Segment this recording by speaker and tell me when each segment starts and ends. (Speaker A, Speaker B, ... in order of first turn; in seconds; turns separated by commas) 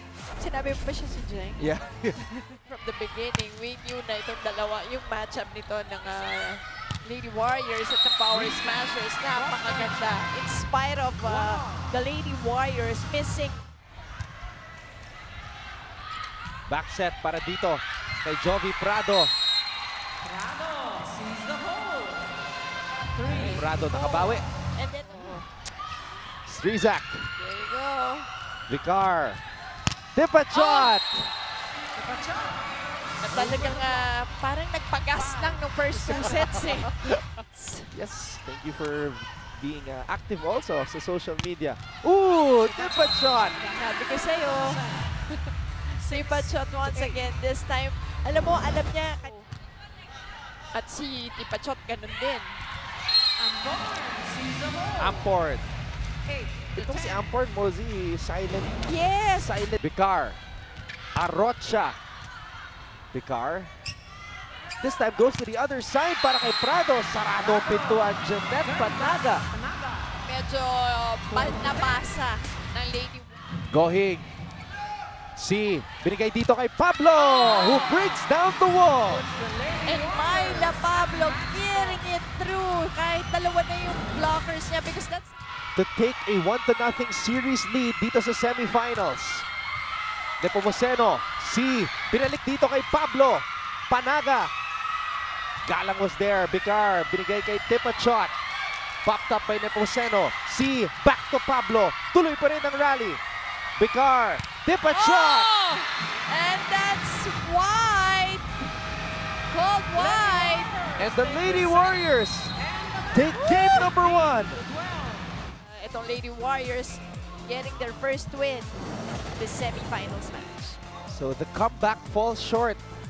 Speaker A: 0.4-1.8, Speaker B: 1.6-2.3, Speaker A: 2.3-13.6, Speaker C: 9.3-10.2, Speaker C: 11.2-11.8, Speaker B: 16.7-19.3, Speaker C: 20.2-22.3, Speaker C: 23.2-23.7, Speaker A: 23.2-25.5, Speaker B: 23.3-24.4, Speaker B: 26.4-27.3, Speaker A: 27.4-28.3, Speaker B: 28.7-29.4, Speaker B: 30.1-31.3, Speaker A: 30.5-30.9, Speaker C: 31.9-32.7, Speaker A: 33.2-37.9, Speaker C: 33.5-34.0, Speaker C: 35.2-35.6, Speaker B: 36.0-36.6, Speaker B: 37.9-43.6, Speaker A: 42.7-44.8, Speaker C: 44.1-45.1, Speaker A: 45.9-49.5, Speaker C: 46.0-47.2, Speaker A: 50.7-52.6, Speaker C: 53.4-55.3, Speaker B: 55.0-55.7, Speaker C: 56.3-56.7, Speaker B: 56.7-58.8, Speaker A: 56.8-57.2, Speaker A: 58.8-59.6, Speaker B: 59.5-60.4, Speaker B: 61.1-62.0, Speaker B: 63.1-63.7, Speaker B: 64.8-69.5, Speaker C: 67.4-68.0, Speaker C: 68.6-70.1, Speaker A: 70.2-73.4, Speaker C: 71.3-71.8, Speaker B: 73.7-74.2, Speaker B: 75.3-79.2, Speaker A: 77.3-77.7, Speaker C: 77.5-78.2, Speaker C: 79.1-82.0, Speaker A: 79.8-85.3, Speaker B: 85.8-89.5, Speaker B: 90.4-94.5, Speaker B: 95.6-98.3, Speaker B: 99.0-103.2, Speaker B: 103.8-105.5, Speaker A: 104.8-108.5, Speaker A: 109.5-112.0, Speaker C: 109.9-111.7, Speaker B: 110.9-112.5, Speaker C: 112.6-115.3, Speaker B: 113.1-114.6, Speaker A: 113.2-114.0, Speaker A: 115.5-118.7, Speaker A: 119.4-120.8, Speaker B: 121.1-122.8